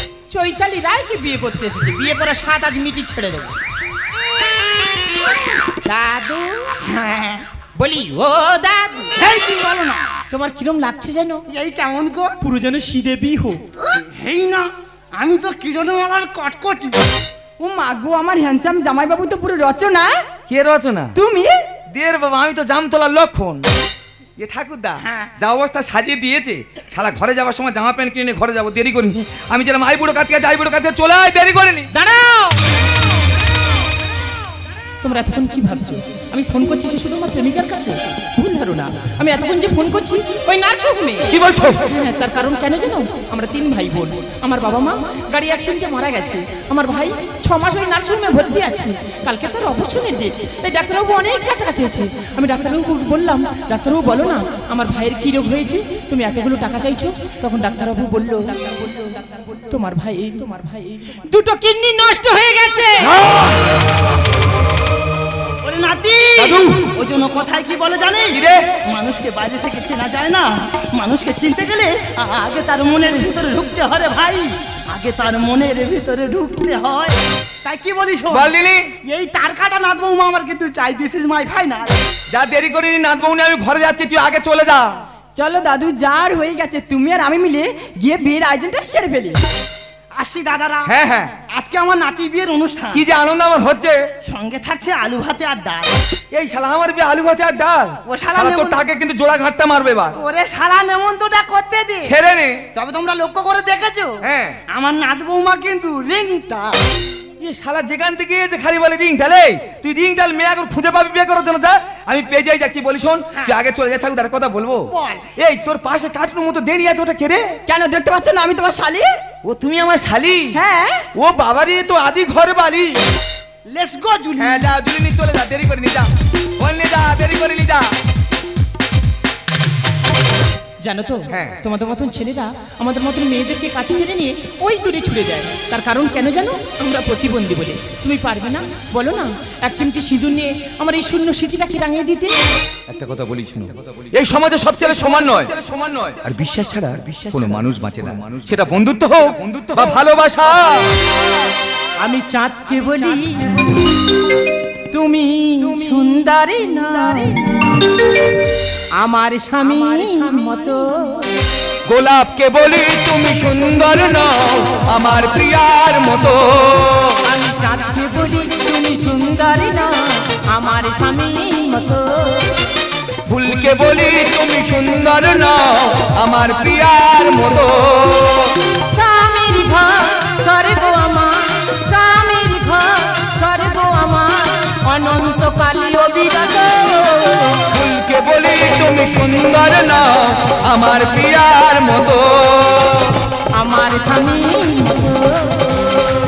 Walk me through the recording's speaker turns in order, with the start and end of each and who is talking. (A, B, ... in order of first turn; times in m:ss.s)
0:00.3-0:03.5 A
0:05.8-0:06.8 A
0:06.9-0:07.4 B
0:07.8-0:09.2 A
0:09.2-0:10.1 B
0:10.3-0:11.4 A
0:11.5-0:12.3 B
0:12.4-0:13.6 A
0:12.6-0:13.5 C
0:14.0-0:17.0 B
0:17.6-0:20.2 C
0:20.5-0:21.2 D
0:21.1-0:21.6 C
0:21.9-0:23.6 D
0:24.4-0:31.9 D
0:31.9-0:32.6 A
0:35.0-0:41.3 A
0:41.3-0:41.9 D
0:41.9-1:03.1 A
1:03.0-1:03.8 D
1:05.6-1:21.9 B
1:06.4-1:06.8 D
1:08.3-1:08.6 D
1:18.3-1:18.9 D
1:22.3-1:24.9 D
1:25.4-1:29.4 C
1:30.2-1:30.9 B
1:30.8-1:31.3 D
1:31.5-1:33.0 B
1:32.9-1:34.0 D
1:34.2-1:35.9 B
1:36.3-1:40.2 D
1:38.1-1:38.8 B
1:40.1-1:42.1 B
1:42.0-1:42.6 D
1:42.7-1:44.2 B
1:44.2-1:44.6 D
1:44.7-1:46.8 B
1:47.4-1:57.5 D
1:54.9-1:55.3 B
1:57.7-1:59.1 C
1:59.4-2:00.6 D
2:00.5-2:01.1 C
2:01.1-2:03.0 D
2:03.7-2:04.7 B
2:04.4-2:07.9 D
2:10.8-2:22.3 A
2:11.3-2:11.6 D
2:22.9-2:30.9 D
2:32.0-2:33.8 A
2:32.9-2:33.2 B
2:34.9-2:37.5 A
2:35.6-2:36.0 C
2:39.0-2:41.3 A
2:41.8-2:47.2 D
2:47.2-2:52.6 A
2:53.3-2:58.5 D
2:58.9-3:07.7 A
3:07.7-3:13.2 D
3:13.6-3:16.2 A